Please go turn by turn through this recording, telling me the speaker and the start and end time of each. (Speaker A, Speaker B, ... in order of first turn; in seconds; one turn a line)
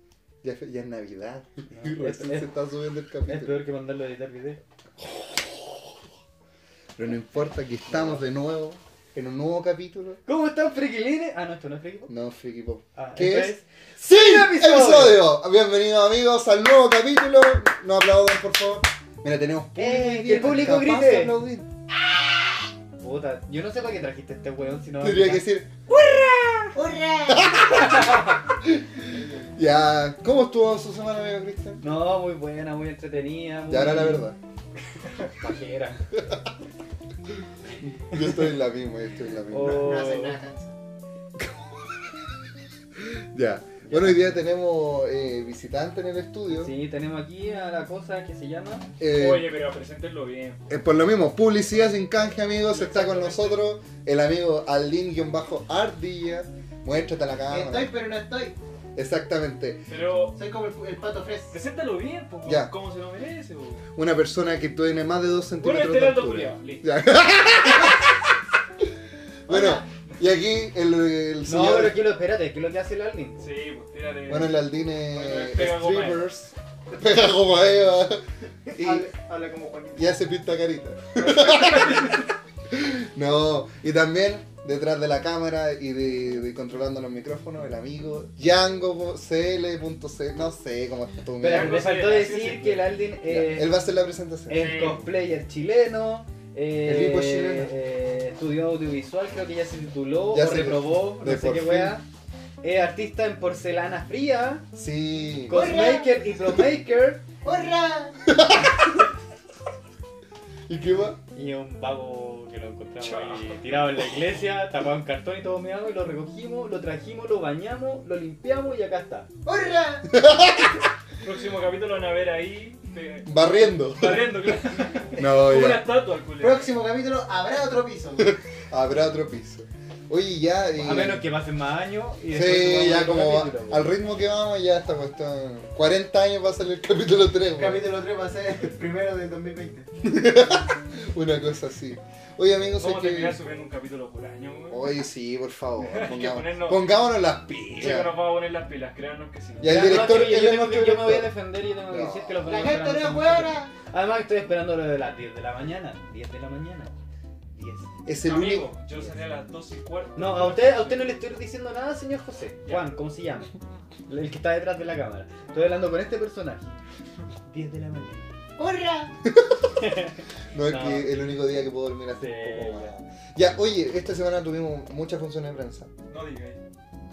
Speaker A: 0.4-3.6
Speaker B: 1.7-2.5
Speaker B: 3.2-4.6
Speaker A: 5.0-5.9
Speaker A: 7.0-10.2
Speaker B: 7.9-8.2
Speaker B: 10.2-12.1
Speaker A: 12.1-21.7
Speaker B: 13.0-15.3
Speaker B: 19.8-21.4
Speaker B: 23.0-25.4
Speaker A: 25.0-26.7
Speaker C: 26.7-27.8
Speaker A: 27.3-28.8
Speaker B: 27.9-28.3
Speaker C: 29.1-29.4
Speaker A: 29.5-31.8
Speaker B: 31.8-34.3
Speaker A: 33.7-34.4
Speaker B: 35.0-36.0
Speaker A: 36.2-36.4
Speaker A: 37.8-39.9
Speaker B: 39.5-40.4
Speaker C: 39.5-40.7
Speaker A: 41.4-41.7
Speaker A: 43.0-46.7
Speaker B: 43.8-44.2
Speaker B: 46.5-48.9
Speaker A: 49.0-49.5
Speaker D: 49.0-50.6
Speaker A: 50.7-57.9
Speaker D: 52.7-53.6
Speaker C: 57.5-58.6
Speaker A: 59.0-59.8
Speaker D: 59.9-60.4
Speaker C: 60.3-61.6
Speaker D: 61.5-63.8
Speaker A: 62.4-62.7
Speaker A: 64.0-68.3
Speaker D: 65.6-66.9
Speaker A: 69.5-72.1
Speaker C: 69.5-69.9
Speaker B: 71.5-73.5
Speaker D: 73.4-76.3
Speaker A: 74.3-78.2
Speaker C: 78.7-80.1
Speaker A: 78.7-79.1
Speaker A: 80.0-91.9
Speaker D: 81.5-82.1
Speaker B: 91.4-93.7
Speaker D: 91.4-93.0
Speaker A: 93.3-94.6
Speaker B: 94.5-102.0
Speaker D: 94.5-95.1
Speaker A: 96.8-97.7
Speaker A: 100.3-102.0
Speaker B: 102.6-104.6
Speaker A: 104.7-105.8
Speaker B: 105.5-107.2
Speaker C: 105.5-106.2
Speaker C: 107.4-108.2
Speaker A: 108.3-108.9
Speaker A: 110.7-111.2
Speaker B: 111.3-119.3
Speaker D: 113.0-114.0
Speaker C: 119.5-120.1
Speaker A: 120.1-120.8
Speaker D: 121.2-126.7
Speaker A: 123.2-124.5
Speaker A: 125.2-125.9
Speaker C: 126.4-128.3
Speaker A: 128.3-131.2
Speaker B: 130.8-133.9
Speaker A: 132.3-137.8
Speaker C: 137.6-139.9
Speaker A: 140.0-143.4
Speaker D: 142.8-144.8
Speaker A: 144.7-148.2
Speaker D: 145.8-146.9
Speaker D: 147.8-150.2
Speaker A: 149.6-151.4
Speaker B: 149.6-156.9
Speaker A: 151.9-152.5
Speaker C: 152.4-153.7
Speaker B: 157.6-157.9
Speaker A: 158.1-158.7
Speaker D: 158.2-161.1
Speaker B: 160.2-163.5
Speaker D: 162.7-162.9
Speaker B: 164.1-166.7
Speaker D: 165.5-165.8
Speaker B: 167.5-168.3
Speaker C: 168.6-169.1
Speaker A: 169.2-169.6
Speaker B: 169.8-171.1
Speaker A: 170.5-175.9
Speaker B: 172.1-172.9
Speaker D: 176.1-176.6